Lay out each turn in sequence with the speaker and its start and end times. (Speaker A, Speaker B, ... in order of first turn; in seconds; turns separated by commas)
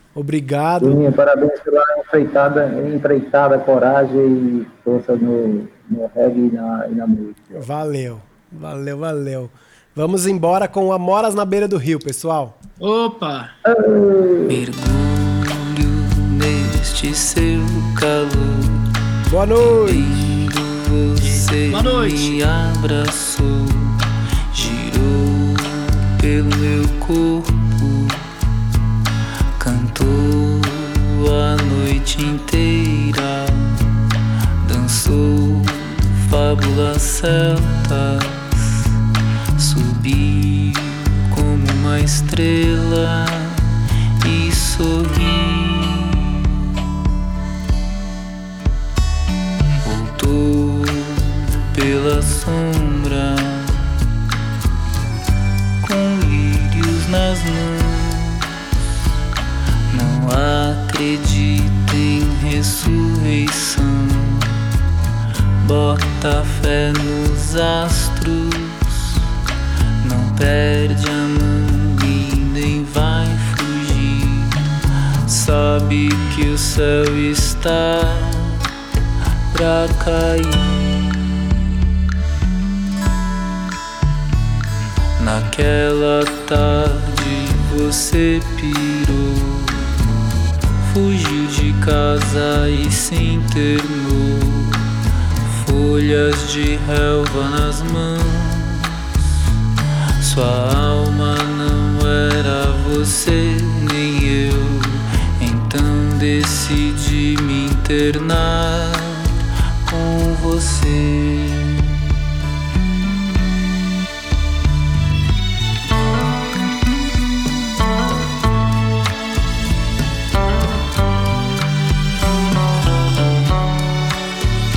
Speaker A: 0.1-1.0, Speaker B: 0.8-7.4, Speaker A: 7.5-12.6, Speaker C: 12.8-13.5, Speaker B: 13.7-14.6, Speaker D: 14.5-18.9, Speaker A: 19.2-20.3, Speaker D: 19.6-28.3, Speaker C: 21.2-22.4, Speaker D: 29.6-39.0, Speaker D: 39.6-47.1, Speaker D: 49.8-54.0, Speaker D: 55.8-58.5, Speaker D: 59.9-64.6, Speaker D: 65.6-69.3, Speaker D: 70.0-78.7, Speaker D: 79.5-81.9, Speaker D: 85.2-99.2, Speaker D: 100.2-112.2